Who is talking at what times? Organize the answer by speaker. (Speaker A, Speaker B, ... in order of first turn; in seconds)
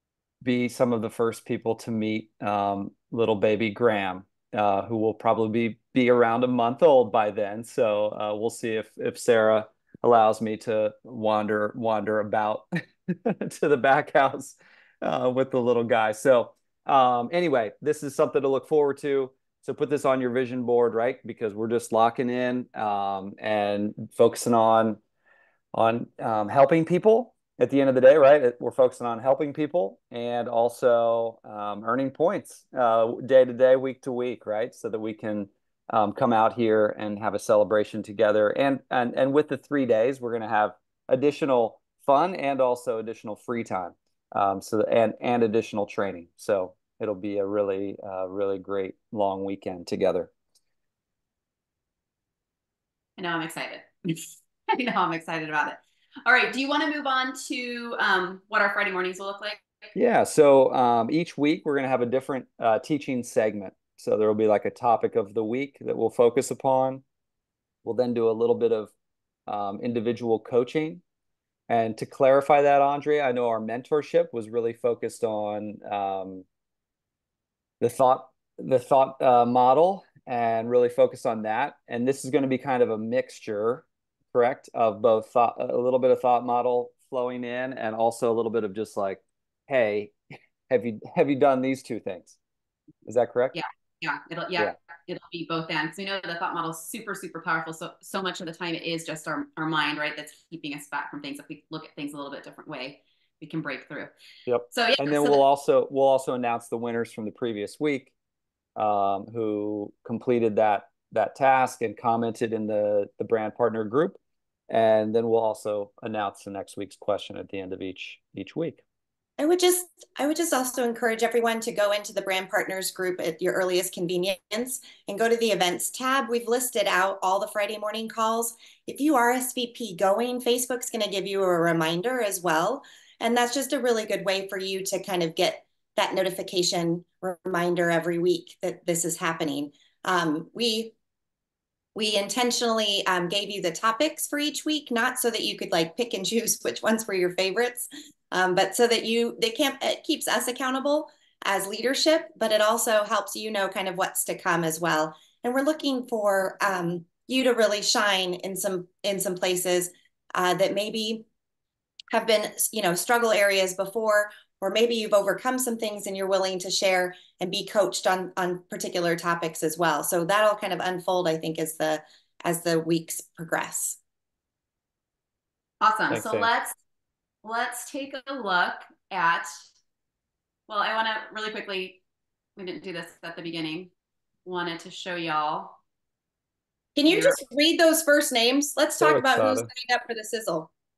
Speaker A: 0.4-25.0, 25.7-50.3, 59.9-67.0, 67.8-68.9, 69.5-71.0, 71.7-76.4, 77.8-90.1, 90.7-92.3, 93.0-93.6, 104.5-108.1, 108.8-114.2, 114.7-118.8, 176.1-176.5, 189.0-189.7
Speaker B: 53.2-59.6, 93.5-104.1, 104.7-105.4, 175.8-176.7, 177.4-179.5, 180.7-182.0, 182.6-183.9, 184.4-185.8, 187.1-187.4
Speaker C: 119.4-140.9, 141.9-161.2, 162.1-174.0, 186.9-190.7